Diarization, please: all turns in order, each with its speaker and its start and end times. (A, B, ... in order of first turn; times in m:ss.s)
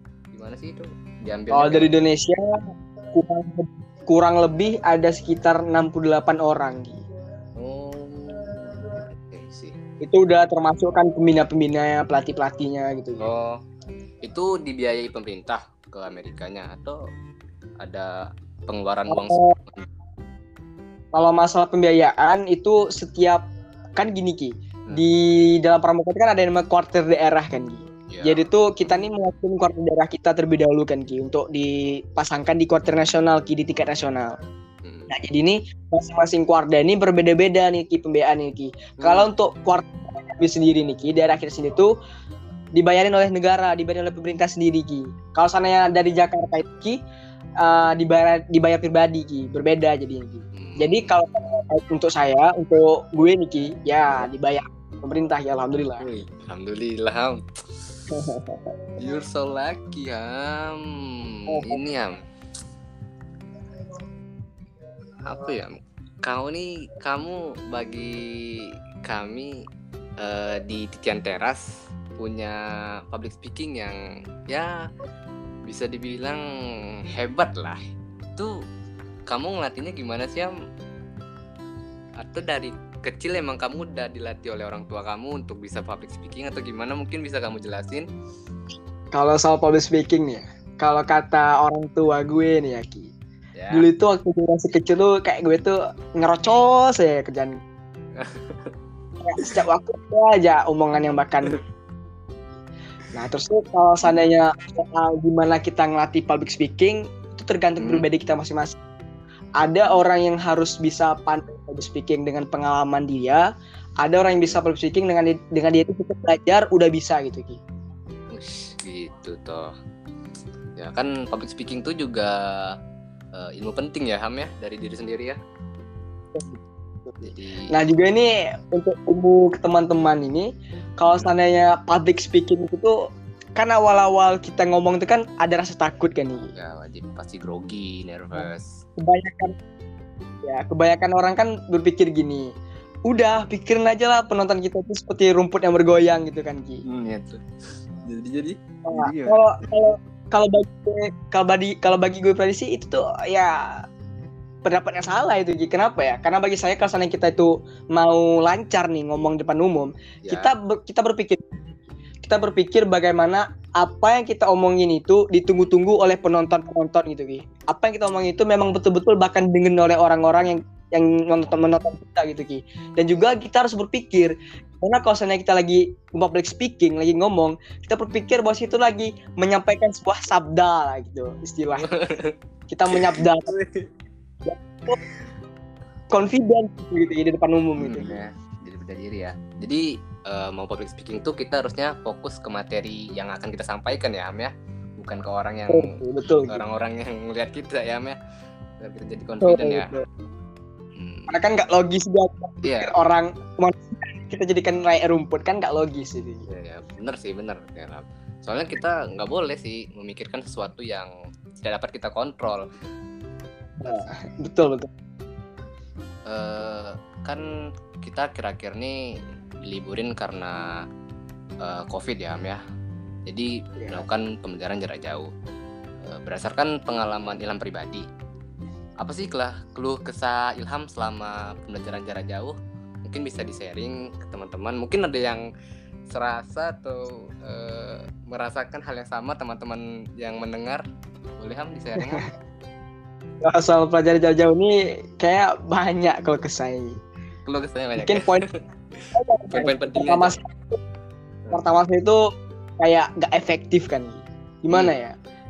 0:00.3-0:01.9 A
0:01.5-0:02.5 B
0:03.1-0:07.0 B
0:07.6-0:09.8 A
0:10.0-0:13.2 B
0:13.2-0:13.6 A
0:14.2-0:17.0 A
0:17.8-0:18.1 A
0:18.7-0:19.9 A
0:19.1-0:19.6 B
0:21.1-0:23.4 B
0:24.0-0:34.4 B
0:28.1-0:28.4 A
0:34.8-0:35.1 A
0:35.1-0:41.9 B
0:39.0-0:39.3 A
0:42.8-0:47.0 B
0:47.6-0:56.0 B
0:50.6-0:51.1 A
0:56.0-0:57.4 A
0:58.1-0:58.7 B
0:59.0-1:00.8 A
1:01.3-1:02.2 A
1:01.5-1:01.8 B
1:05.3-1:08.2 A
1:09.1-1:09.5 A
1:10.2-1:11.6 A
1:12.2-1:12.6 A
1:13.1-1:14.0 A
1:15.7-1:16.4 A
1:17.2-1:17.8 A
1:19.3-1:20.5 A
1:22.2-1:28.1 A
1:29.1-1:33.1 B
1:33.6-1:33.9 A
1:33.7-1:37.6 B
1:38.2-1:38.7 A
1:39.2-1:41.6 B
1:43.1-1:48.8 B
1:47.8-1:48.1 A
1:49.6-1:53.4 B
1:54.0-1:57.6 B
1:58.3-1:59.7 A
2:00.8-2:02.8 A
2:03.4-2:05.4 A
2:06.4-2:07.2 B
2:07.2-2:07.7 A
2:07.7-2:12.9 B
2:13.6-2:16.5 B
2:16.5-2:18.7 A
2:18.4-2:19.6 B
2:20.4-2:22.5 B
2:23.1-2:26.8 B
2:26.9-2:27.4 A
2:28.1-2:29.5 A
2:28.9-2:33.8 B
2:34.6-2:41.7 B
2:40.2-2:40.5 A
2:42.2-3:01.9 B
3:01.9-3:02.4 A
3:02.7-3:03.6 B
3:02.9-3:03.9 A
3:04.4-3:05.0 B
3:06.1-3:08.1 B
3:07.8-3:18.2 A
3:15.7-3:16.6 B
3:18.8-3:19.9 A
3:19.4-3:20.1 B
3:21.0-3:21.4 A
3:21.3-3:26.5 B
3:22.6-3:22.9 A
3:26.5-3:32.6 A
3:33.8-3:34.9 B
3:36.3-3:37.4 A
3:38.0-3:39.0 A
3:39.6-3:40.7 A
3:41.6-3:42.6 A
3:43.3-3:45.3 A
3:46.1-3:48.1 A
3:49.0-3:55.4 A
3:56.1-4:00.8 A
4:01.4-4:02.3 A
4:03.4-4:06.9 B
4:07.5-4:08.4 A
4:08.0-4:08.4 B
4:09.1-4:10.8 B
4:09.5-4:10.4 A
4:11.5-4:12.2 B
4:12.8-4:15.2 B